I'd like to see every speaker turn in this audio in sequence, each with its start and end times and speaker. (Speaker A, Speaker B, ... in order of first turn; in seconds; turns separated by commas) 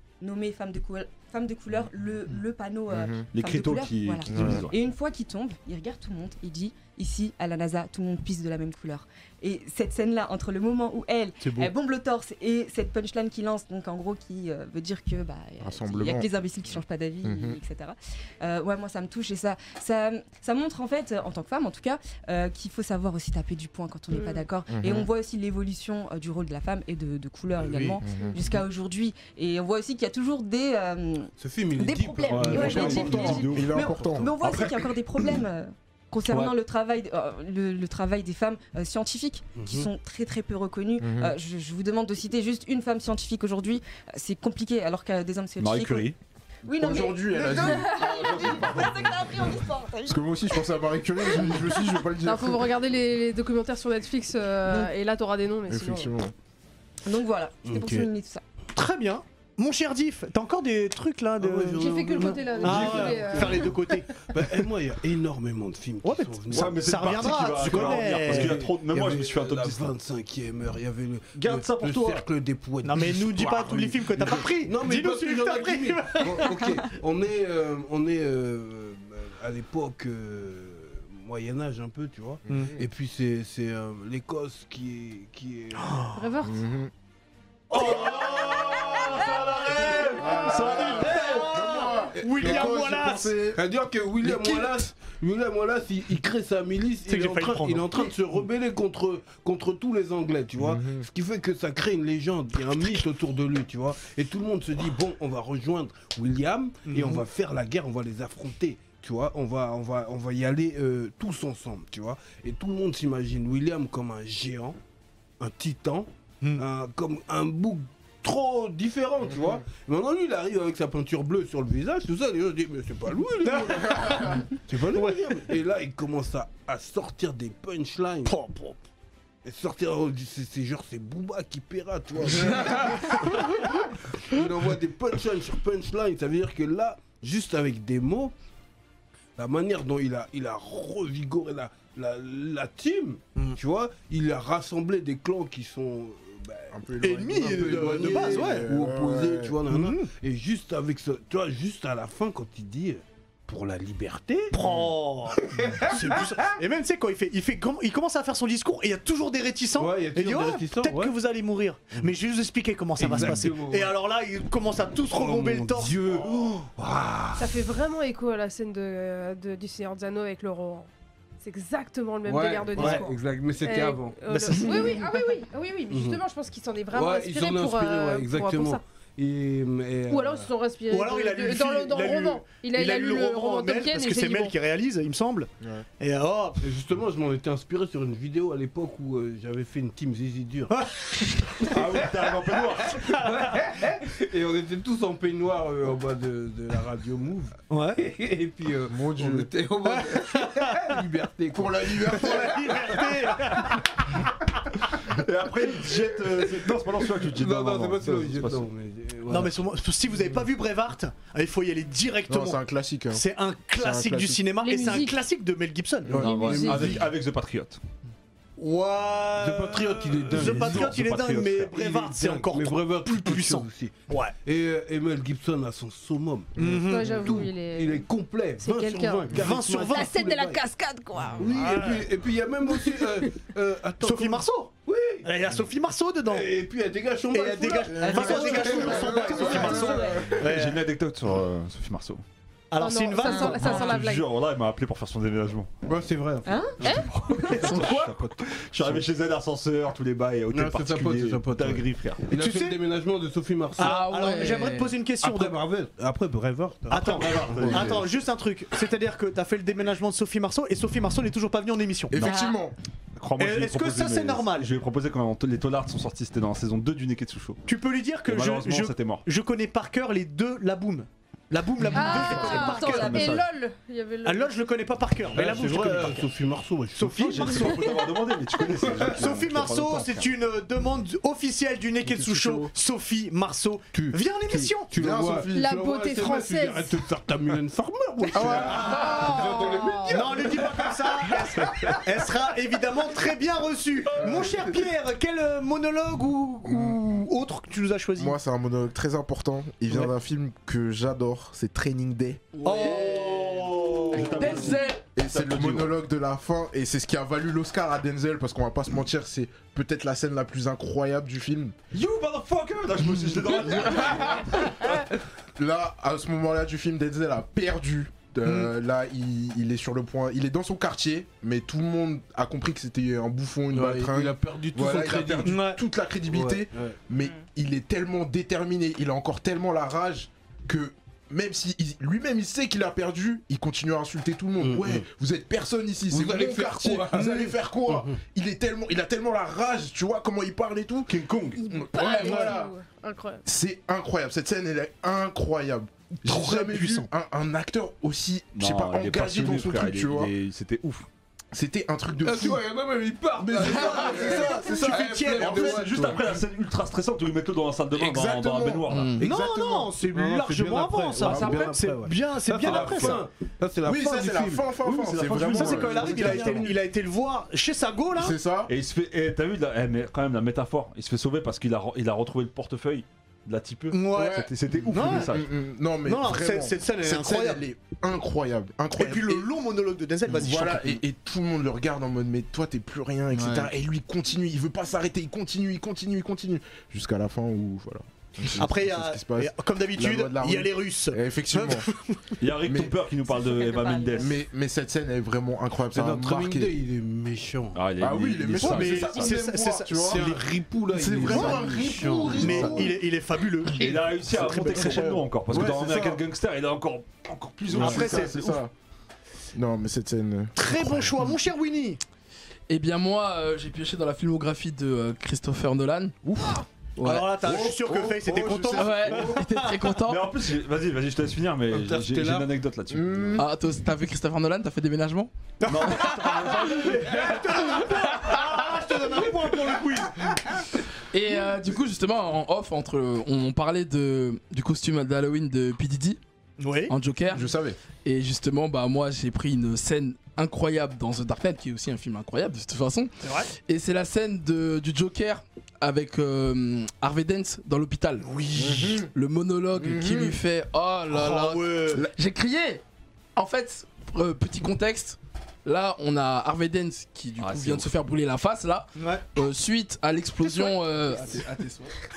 Speaker A: 0.2-46.1, Speaker B: 2.9-3.2, Speaker C: 3.3-4.8, Speaker B: 4.3-4.7, Speaker B: 15.6-16.3, Speaker B: 17.2-17.6, Speaker D: 24.1-24.4, Speaker B: 24.7-25.1, Speaker E: 27.7-28.0, Speaker B: 28.0-28.4, Speaker E: 31.4-34.2, Speaker C: 32.3-33.9, Speaker B: 32.5-34.3, Speaker C: 34.4-35.4, Speaker C: 36.3-36.5, Speaker E: 39.6-39.9, Speaker B: 41.0-41.4, Speaker C: 45.6-46.2, Speaker A: 46.6-50.2, Speaker B: 46.7-49.5, Speaker B: 50.1-52.7, Speaker A: 51.4-51.7, Speaker D: 52.2-56.2, Speaker B: 55.7-56.3, Speaker A: 57.0-58.4, Speaker E: 57.6-58.1, Speaker F: 58.8-64.6, Speaker E: 61.4-86.2, Speaker D: 61.8-63.7, Speaker F: 66.0-68.6, Speaker C: 66.5-69.9, Speaker C: 71.4-72.2, Speaker F: 72.8-76.9, Speaker B: 82.5-82.8, Speaker F: 85.8-86.2, Speaker D: 86.1-86.6, Speaker B: 86.5-86.9, Speaker C: 87.7-91.5, Speaker F: 87.7-93.3, Speaker B: 90.2-93.6, Speaker E: 92.2-92.9, Speaker E: 93.5-114.8, Speaker F: 94.2-94.7, Speaker F: 97.1-98.1, Speaker B: 100.6-101.0, Speaker F: 106.9-107.2, Speaker E: 115.4-128.4, Speaker F: 123.4-123.7, Speaker B: 123.9-124.3, Speaker F: 124.9-125.4, Speaker F: 128.3-128.8, Speaker E: 129.4-138.3, Speaker E: 139.4-146.8, Speaker B: 146.7-149.6, Speaker F: 147.0-148.7, Speaker E: 147.4-154.6, Speaker F: 149.7-150.1, Speaker F: 154.5-166.0, Speaker E: 155.4-156.6, Speaker E: 159.8-161.1, Speaker E: 163.0-163.9, Speaker E: 165.1-167.6, Speaker D: 167.3-170.9, Speaker D: 171.4-178.8, Speaker E: 172.2-174.9, Speaker F: 172.8-173.1, Speaker F: 174.3-175.2, Speaker E: 175.9-176.2, Speaker E: 176.9-180.5, Speaker D: 180.1-184.6, Speaker F: 180.9-186.6, Speaker E: 186.6-190.8, Speaker F: 190.7-191.8, Speaker E: 191.6-192.1, Speaker C: 191.7-193.2, Speaker E: 193.0-203.6, Speaker F: 197.7-198.0, Speaker B: 198.9-199.5, Speaker F: 199.8-201.0, Speaker B: 201.5-202.8, Speaker F: 202.1-204.0, Speaker C: 205.0-208.7, Speaker E: 207.2-209.6, Speaker F: 209.3-212.6, Speaker B: 212.3-213.2, Speaker F: 213.1-216.2, Speaker B: 213.8-214.4, Speaker D: 214.6-215.2, Speaker B: 216.1-216.3, Speaker E: 216.1-217.1, Speaker C: 216.2-217.8, Speaker D: 216.2-216.9, Speaker F: 218.6-224.3, Speaker E: 219.4-221.2, Speaker C: 220.3-221.8, Speaker E: 221.7-223.9, Speaker E: 224.5-230.6, Speaker F: 226.6-227.5, Speaker D: 226.8-231.4, Speaker F: 229.3-230.2, Speaker E: 231.4-235.3, Speaker F: 231.4-232.1, Speaker D: 232.6-233.4, Speaker F: 234.0-234.7, Speaker F: 235.2-236.5, Speaker E: 236.3-240.0, Speaker F: 237.3-240.8, Speaker B: 237.9-240.5, Speaker A: 239.6-240.2, Speaker C: 240.4-242.2, Speaker F: 242.7-244.0, Speaker D: 242.8-244.3, Speaker A: 243.2-243.9, Speaker C: 243.3-245.7, Speaker E: 245.9-247.1, Speaker A: 246.4-247.0, Speaker D: 246.8-247.1, Speaker C: 246.8-252.3, Speaker G: 247.5-248.2, Speaker E: 250.5-254.0, Speaker F: 252.3-252.8, Speaker G: 253.8-254.9, Speaker F: 253.8-255.6, Speaker E: 255.2-258.0, Speaker F: 256.9-262.2, Speaker C: 257.0-258.1, Speaker B: 262.1-262.8, Speaker A: 262.2-262.6, Speaker C: 263.2-267.6, Speaker F: 263.4-264.7, Speaker F: 267.7-273.4, Speaker C: 268.3-269.2, Speaker C: 271.9-273.5, Speaker D: 271.9-274.6, Speaker F: 274.2-276.3, Speaker E: 275.3-277.6, Speaker F: 277.0-278.1, Speaker C: 277.2-280.3, Speaker E: 278.8-279.4, Speaker F: 279.0-284.9, Speaker B: 282.1-282.7, Speaker E: 283.9-292.3, Speaker B: 284.9-285.8, Speaker D: 285.5-287.0, Speaker B: 288.3-288.9, Speaker F: 288.4-289.4, Speaker D: 288.9-290.2, Speaker F: 290.1-298.4, Speaker B: 294.2-294.5, Speaker E: 294.3-294.7, Speaker B: 296.6-297.0, Speaker B: 298.2-302.4, Speaker G: 302.6-303.3, Speaker F: 302.6-303.7, Speaker C: 302.7-305.9, Speaker G: 304.1-305.1, Speaker B: 304.2-311.8, Speaker C: 311.9-315.0, Speaker B: 313.5-314.4, Speaker B: 315.6-341.1, Speaker F: 318.5-318.7, Speaker E: 323.7-325.6, Speaker F: 325.4-325.8, Speaker E: 326.3-327.0, Speaker E: 334.6-335.1, Speaker E: 336.1-338.2, Speaker C: 341.1-341.6, Speaker D: 341.6-343.4, Speaker B: 341.7-342.7, Speaker G: 342.0-342.5, Speaker B: 343.4-350.3, Speaker F: 346.2-347.1, Speaker C: 348.6-351.1, Speaker B: 351.5-352.6, Speaker E: 352.2-356.2, Speaker B: 353.4-356.4, Speaker F: 353.6-355.8, Speaker C: 355.5-359.1, Speaker B: 357.9-359.9, Speaker G: 358.9-359.2, Speaker F: 359.2-363.2, Speaker E: 359.9-364.8, Speaker B: 361.2-361.7, Speaker B: 363.8-366.8, Speaker C: 364.8-366.8, Speaker F: 365.4-368.4, Speaker B: 368.1-368.7, Speaker C: 368.7-375.5, Speaker F: 373.9-375.4, Speaker B: 374.1-379.5, Speaker F: 376.1-377.6, Speaker F: 379.0-381.0, Speaker B: 380.3-391.9, Speaker G: 383.3-383.7, Speaker F: 388.6-392.3, Speaker C: 392.4-394.4, Speaker B: 392.6-393.0, Speaker A: 393.3-394.3, Speaker B: 394.2-396.7, Speaker E: 395.9-397.8, Speaker C: 397.8-399.3, Speaker B: 398.0-400.4, Speaker F: 398.6-400.4, Speaker E: 400.0-402.9, Speaker B: 400.9-402.9, Speaker F: 401.2-401.7, Speaker F: 402.3-405.2, Speaker C: 403.7-408.6, Speaker B: 404.3-406.2, Speaker B: 407.7-408.7, Speaker F: 407.7-408.4, Speaker B: 409.5-411.1, Speaker F: 410.6-412.0, Speaker G: 412.7-416.2, Speaker G: 417.0-417.4, Speaker F: 417.0-419.8, Speaker B: 417.4-419.4, Speaker G: 418.7-420.3, Speaker C: 420.0-423.4, Speaker E: 421.7-422.5, Speaker B: 422.9-423.5, Speaker G: 423.4-425.3, Speaker F: 425.6-430.6, Speaker C: 425.7-427.8, Speaker G: 431.1-436.2, Speaker F: 436.6-436.9, Speaker G: 436.9-437.5, Speaker B: 437.3-437.8, Speaker G: 438.0-443.1, Speaker F: 443.2-443.5, Speaker G: 443.7-448.3, Speaker F: 448.2-449.0, Speaker B: 448.6-449.1, Speaker G: 449.1-452.8, Speaker B: 449.8-450.4, Speaker F: 451.1-452.1, Speaker G: 453.4-461.9, Speaker C: 457.4-457.9, Speaker F: 459.0-459.2